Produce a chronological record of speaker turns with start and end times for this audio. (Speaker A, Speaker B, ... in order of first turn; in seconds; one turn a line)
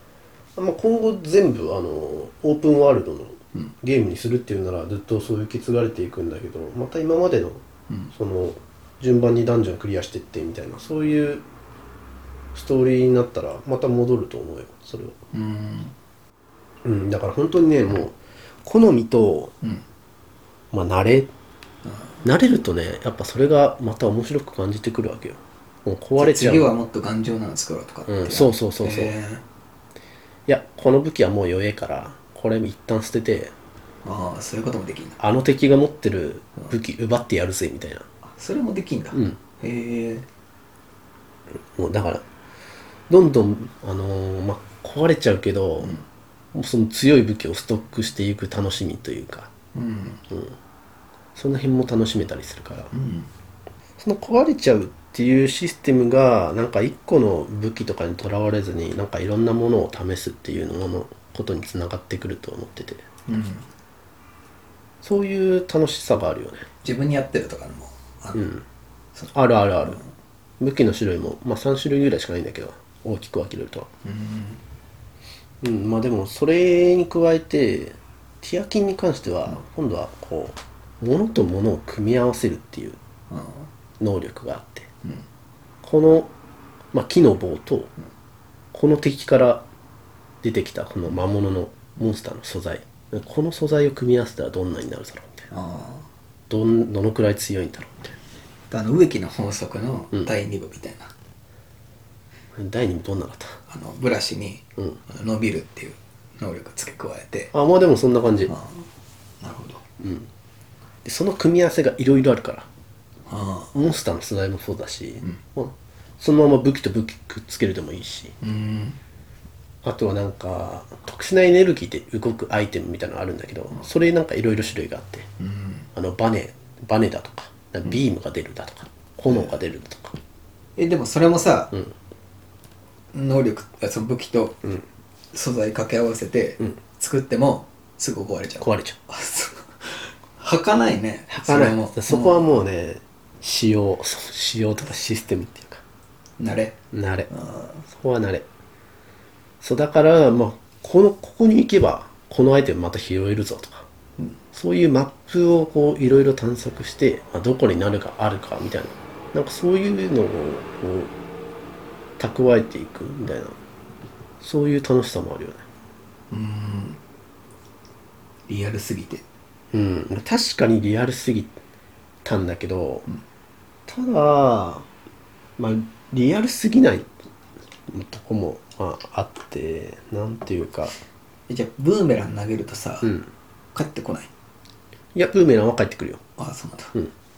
Speaker A: 0.6-11.4
Speaker A: 12.5-15.2
Speaker B: 15.3-15.9
Speaker A: 16.8-19.5
Speaker A: 20.7-21.3
Speaker B: 21.9-22.2
Speaker A: 22.2-26.7
Speaker B: 26.2-29.4
Speaker A: 28.1-29.2
Speaker A: 30.5-33.5
Speaker B: 34.0-35.2
Speaker A: 35.2-38.1
Speaker B: 38.3-40.3
Speaker A: 39.1-39.4
Speaker A: 41.7-42.2
Speaker A: 43.1-46.0
Speaker A: 46.5-49.5
Speaker B: 49.7-50.2
Speaker A: 50.3-50.6
Speaker A: 51.4-52.9
Speaker B: 52.9-53.3
Speaker A: 54.0-63.0
Speaker B: 63.3-63.6
Speaker A: 65.0-66.7
Speaker B: 66.8-68.5
Speaker A: 68.3-68.6
Speaker A: 69.3-70.0
Speaker A: 70.6-73.9
Speaker B: 74.0-74.6
Speaker A: 75.6-83.0
Speaker B: 83.3-83.7
Speaker A: 84.0-84.9
Speaker A: 85.8-86.3
Speaker A: 86.9-87.9
Speaker A: 88.7-89.7
Speaker A: 90.4-95.5
Speaker B: 95.5-96.1
Speaker A: 96.5-98.2
Speaker B: 98.7-101.1
Speaker A: 102.5-103.6
Speaker B: 103.7-107.5
Speaker A: 107.5-108.5
Speaker B: 108.5-108.9
Speaker B: 109.4-109.8
Speaker A: 110.0-110.3
Speaker A: 111.0-112.7
Speaker B: 113.3-113.7
Speaker A: 113.7-118.3
Speaker B: 118.4-119.0
Speaker A: 119.8-125.3
Speaker B: 125.4-125.9
Speaker A: 125.9-130.2
Speaker B: 130.8-131.8
Speaker B: 133.1-134.6
Speaker B: 135.3-142.6
Speaker A: 138.6-139.0
Speaker A: 141.3-145.8
Speaker B: 146.4-147.8
Speaker A: 146.9-147.3
Speaker A: 147.9-148.4
Speaker A: 149.6-153.9
Speaker A: 154.5-161.1
Speaker A: 162.2-163.6
Speaker A: 164.4-165.6
Speaker B: 166.3-167.0
Speaker B: 168.5-169.2
Speaker A: 169.7-171.6
Speaker A: 172.2-173.1
Speaker A: 173.9-174.9
Speaker A: 175.6-177.1
Speaker A: 177.9-180.9
Speaker B: 181.5-183.1
Speaker A: 183.0-183.3
Speaker B: 183.7-184.3
Speaker A: 185.2-186.2
Speaker B: 186.4-187.0